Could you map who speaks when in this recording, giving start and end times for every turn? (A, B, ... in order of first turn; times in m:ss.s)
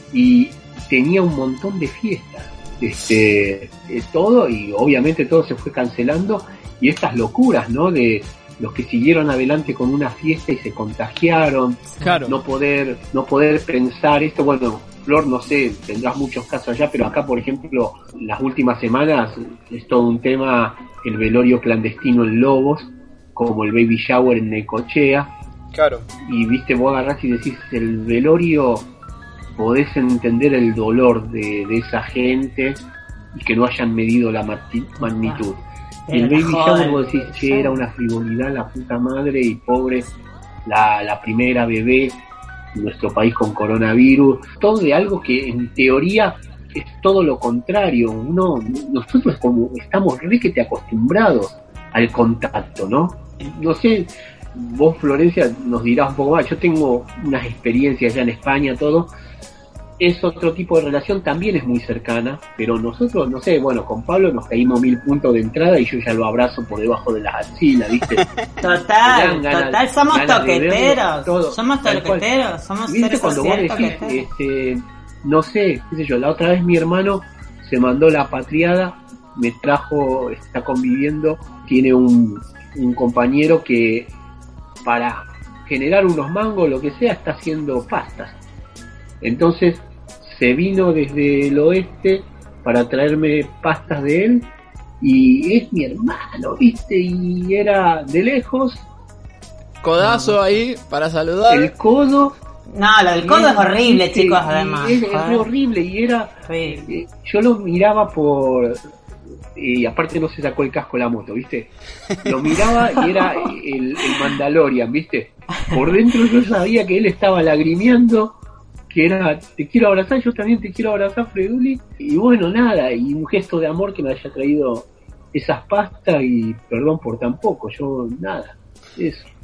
0:00.1-0:25.3 A
0:12.0-0:12.4 B
0:25.7-0:26.1 B
0:26.2-0:28.9 A
0:29.6-0:32.8 A
0:33.3-0:35.6 A
0:35.0-0:35.4 C
0:36.1-0:37.8 C
0:36.1-0:40.1 A
0:40.6-0:42.2 A
0:42.7-0:59.1 A
1:00.0-1:08.2 A
1:08.6-1:14.3 C
1:09.0-1:12.2 A
1:12.8-1:24.1 A
1:24.8-1:28.4 A
1:29.2-1:34.5 A
1:35.0-1:38.8 A
1:39.8-1:41.7 B
1:40.0-1:40.4 C
1:41.5-1:42.4 A
1:42.7-1:45.5 C
1:43.2-1:46.3 A
1:46.5-1:46.9 C
1:46.8-1:48.8 A
1:49.6-1:51.7 A
1:52.2-1:58.4 A
1:53.0-1:53.5 C
1:58.9-2:09.3 A